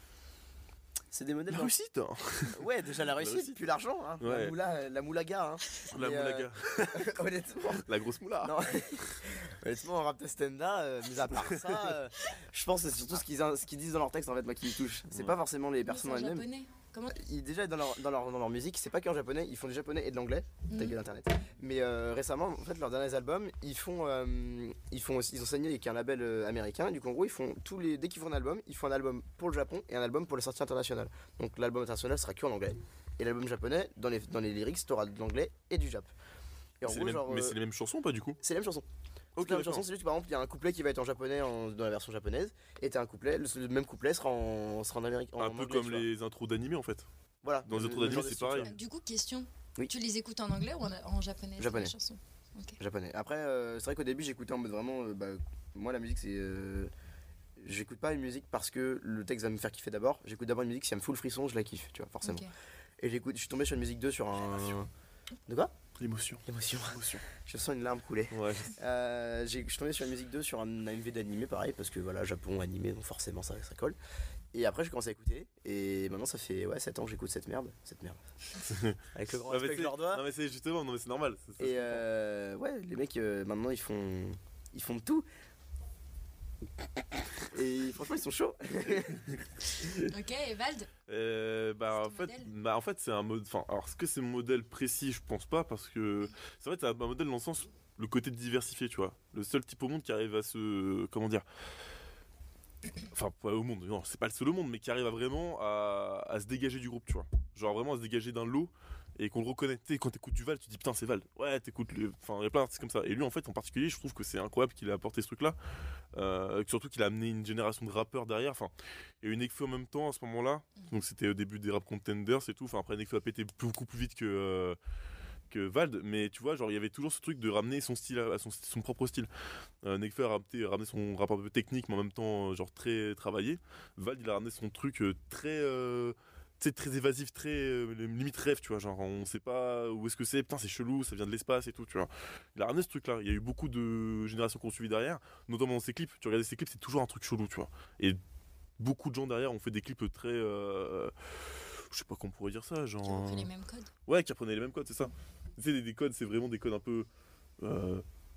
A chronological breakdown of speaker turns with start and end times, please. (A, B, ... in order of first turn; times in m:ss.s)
0:01.1-0:01.7 A
0:01.5-0:03.6 B
0:02.5-0:07.9 A
0:04.2-0:04.6 B
0:05.9-0:07.2 B
0:07.7-0:08.6 B
0:08.4-0:16.4 A
0:11.5-0:11.9 B
0:15.1-0:15.4 B
0:15.8-0:17.2 C
0:17.1-0:36.1 A
0:20.7-0:21.0 C
0:36.8-0:37.6 A
0:36.8-0:38.4 B
0:38.4-0:38.8 A
0:39.4-0:39.8 B
0:39.4-0:46.1 A
0:45.4-0:47.0 B
0:47.4-0:48.7 A
0:47.6-0:48.7 B
0:48.1-0:52.8 C
0:51.6-0:51.9 A
0:52.8-0:56.9 A
0:57.6-1:02.4 A
1:02.2-1:02.5 C
1:03.0-1:04.9 A
1:06.0-1:07.2 B
1:06.4-1:14.0 A
1:08.3-1:08.8 B
1:14.5-1:18.2 A
1:18.6-1:22.0 B
1:19.1-1:20.2 A
1:21.6-1:25.2 A
1:27.5-1:29.3 A
1:29.8-1:30.9 C
1:31.1-1:41.4 B
1:31.9-1:32.5 C
1:43.1-1:55.6 B
1:56.1-2:04.8 B
2:05.5-2:09.3 B
2:09.8-2:28.2 B
2:28.8-2:33.5 B
2:33.0-2:33.9 C
2:34.1-2:37.1 B
2:37.6-2:38.0 B